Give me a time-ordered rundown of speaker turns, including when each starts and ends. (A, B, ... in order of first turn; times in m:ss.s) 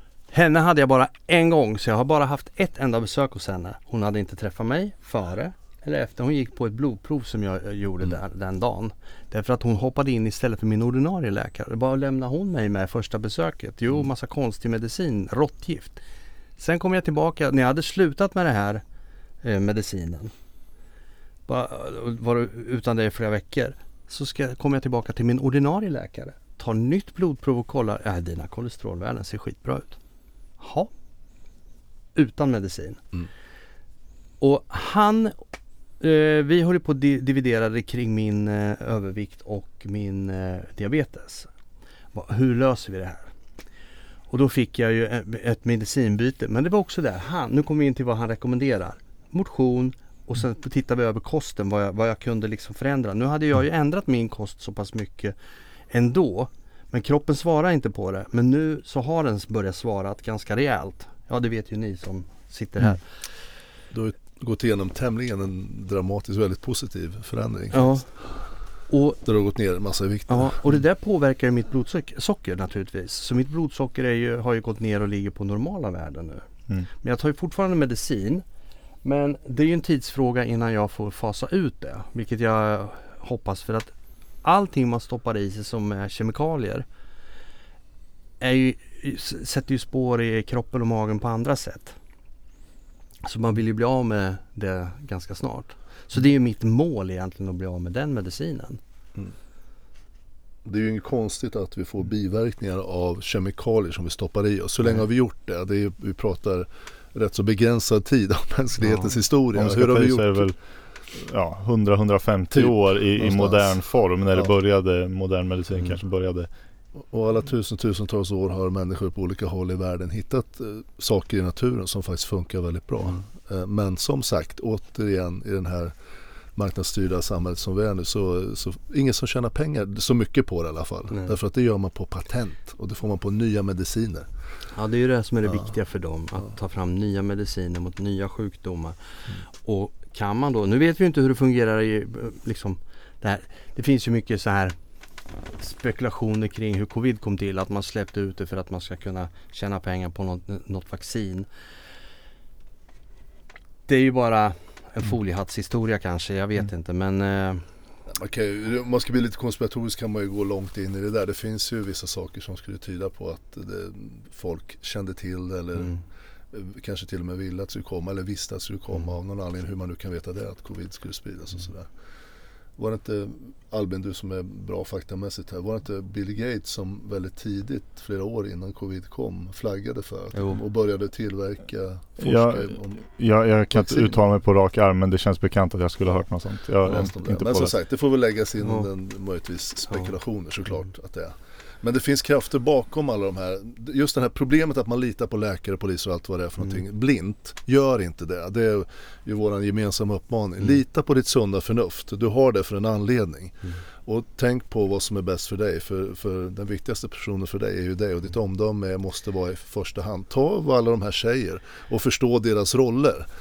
0:00.3-0:16.0 A
0:16.6-0:18.8 A
0:19.4-0:20.3 A
0:21.5-0:30.0 A
0:30.6-0:30.9 A
0:32.1-0:33.1 A
0:34.4-0:35.4 A
0:36.0-0:41.5 A
0:42.1-0:43.3 A
0:44.3-0:55.3 A
0:55.9-1:03.0 A
1:03.9-1:08.0 B
1:07.7-1:08.1 A
1:08.9-1:09.2 A
1:09.2-1:10.6 B
1:10.3-1:16.4 A
1:17.0-1:18.4 A
1:19.0-1:23.9 A
1:24.4-1:26.8 A
1:28.4-1:32.0 A
1:33.2-1:38.8 A
1:40.6-1:50.5 B
1:48.8-1:49.2 A
1:49.5-1:50.6 C
1:51.1-1:56.5 C
1:52.5-1:53.8 B
1:57.1-2:05.9 B
2:06.6-2:14.3 B
2:14.7-2:19.0 A
2:19.5-2:24.7 A
2:25.6-2:31.5 A
2:33.9-2:37.6 A
2:38.1-2:45.9 B
2:46.5-2:51.9 B
2:52.8-3:03.1 B
3:00.3-3:00.6 A
3:02.2-3:07.7 C
3:03.7-3:04.2 B
3:06.8-3:33.3 B
3:08.6-3:08.9 A